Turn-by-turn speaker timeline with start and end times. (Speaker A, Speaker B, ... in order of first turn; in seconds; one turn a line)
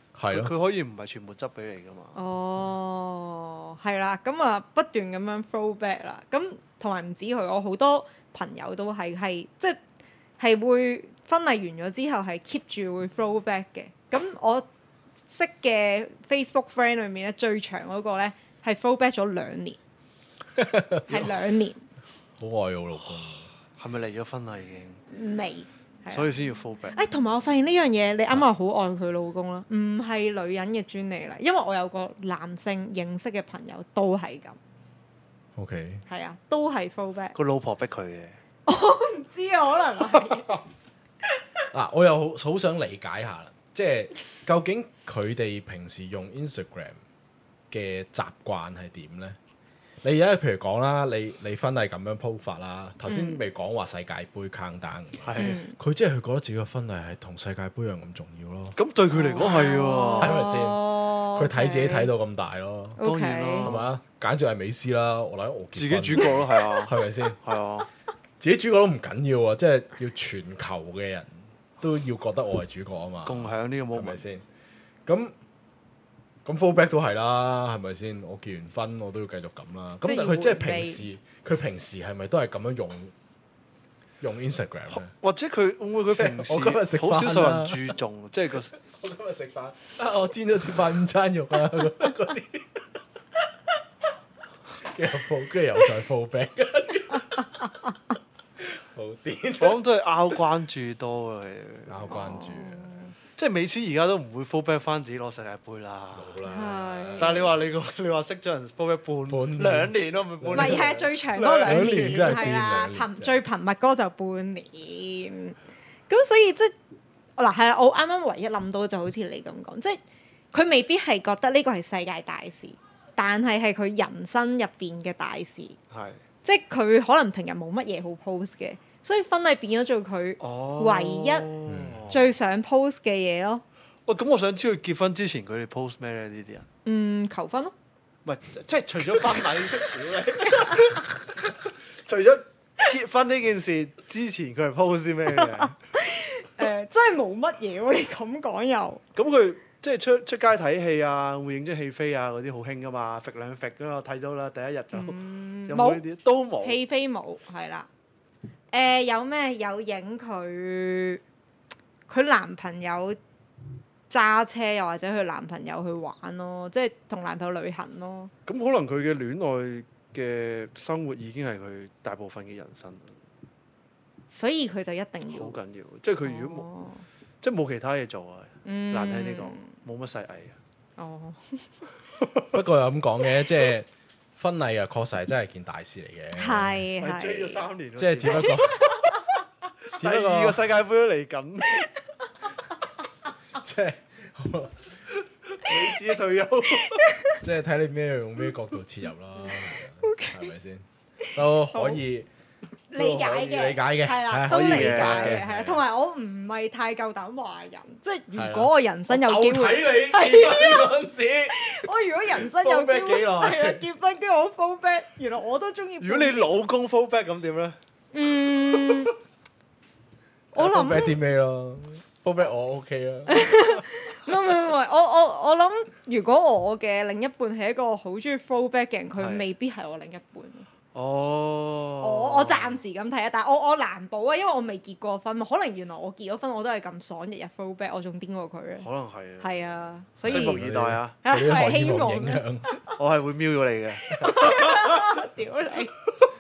Speaker A: 0.1-0.5
Speaker B: 0.3-2.2
Speaker C: 2.1-9.8
Speaker C: 10.4-14.7
Speaker C: 15.2-19.8
Speaker A: 20.5-21.3
Speaker C: 21.1-21.8
Speaker A: 22.4-23.5
Speaker B: 23.8-25.0
Speaker C: 25.1-26.3
Speaker B: 26.1-27.0
Speaker C: 26.9-34.6
Speaker A: 35.5-36.0
Speaker C: 36.1-37.3
Speaker B: 37.3-38.4
Speaker C: 38.7-40.6
Speaker A: 41.7-47.0
Speaker A: 47.7-49.4
Speaker A: 50.0-58.8
Speaker C: 53.1-53.4
Speaker B: 55.2-55.6
Speaker C: 55.4-55.8
Speaker B: 58.8-60.4
Speaker C: 59.2-62.1
Speaker A: 60.1-63.0
Speaker C: 63.0-63.7
Speaker B: 63.0-63.9
Speaker A: 63.6-67.4
Speaker B: 65.7-67.9
Speaker A: 68.4-74.4
Speaker B: 73.2-74.2
Speaker A: 75.0-75.3
Speaker A: 76.4-83.1
Speaker C: 80.0-81.0
Speaker A: 84.2-85.1
Speaker B: 85.0-88.7
Speaker A: 86.1-87.9
Speaker A: 88.8-92.9
Speaker A: 94.8-97.7
Speaker A: 98.6-99.8
Speaker B: 99.6-102.2
Speaker A: 101.9-103.0
Speaker C: 102.1-103.1
Speaker B: 103.4-106.4
Speaker A: 106.1-107.5
Speaker C: 106.4-107.5
Speaker B: 107.2-112.7
Speaker A: 109.3-111.0
Speaker C: 110.5-115.6
Speaker A: 111.6-113.4
Speaker C: 116.1-116.7
Speaker C: 117.4-120.0
Speaker C: 120.5-125.8
Speaker B: 125.9-126.2
Speaker C: 126.4-131.5
Speaker B: 130.4-132.2
Speaker A: 131.7-132.1
Speaker C: 132.1-133.6
Speaker B: 134.1-136.7
Speaker C: 136.8-137.7
Speaker B: 138.2-145.7
Speaker C: 145.4-149.0
Speaker B: 149.2-156.8
Speaker C: 154.9-156.0
Speaker C: 156.6-157.9
Speaker C: 158.7-161.2
Speaker C: 162.1-163.2
Speaker C: 164.1-168.3
Speaker B: 168.4-173.2
Speaker C: 174.3-175.6
Speaker B: 175.3-176.7
Speaker C: 176.2-177.0
Speaker B: 177.4-180.6
Speaker C: 178.6-179.7
Speaker C: 181.0-181.8
Speaker A: 182.5-186.8
Speaker C: 186.3-187.6
Speaker B: 187.0-188.6
Speaker A: 188.0-188.9
Speaker C: 188.3-189.1
Speaker B: 189.9-191.9
Speaker A: 189.9-190.6
Speaker A: 193.5-195.0
Speaker B: 195.5-197.0
Speaker C: 196.8-197.4
Speaker A: 197.4-202.3
Speaker C: 200.0-200.5
Speaker C: 201.7-202.0
Speaker C: 202.9-210.9
Speaker A: 202.9-205.8
Speaker B: 204.5-205.4
Speaker A: 208.3-211.8
Speaker C: 211.5-216.5
Speaker A: 212.3-213.8
Speaker B: 216.0-217.8
Speaker C: 218.1-219.1
Speaker C: 220.5-221.2
Speaker A: 220.5-223.8
Speaker C: 223.3-230.7
Speaker B: 229.2-229.5
Speaker B: 230.9-232.8
Speaker C: 232.0-238.9
Speaker B: 238.8-241.2
Speaker C: 239.4-240.6
Speaker A: 240.2-242.7
Speaker C: 241.2-242.9
Speaker B: 242.9-244.4
Speaker C: 244.1-245.9
Speaker A: 244.2-244.9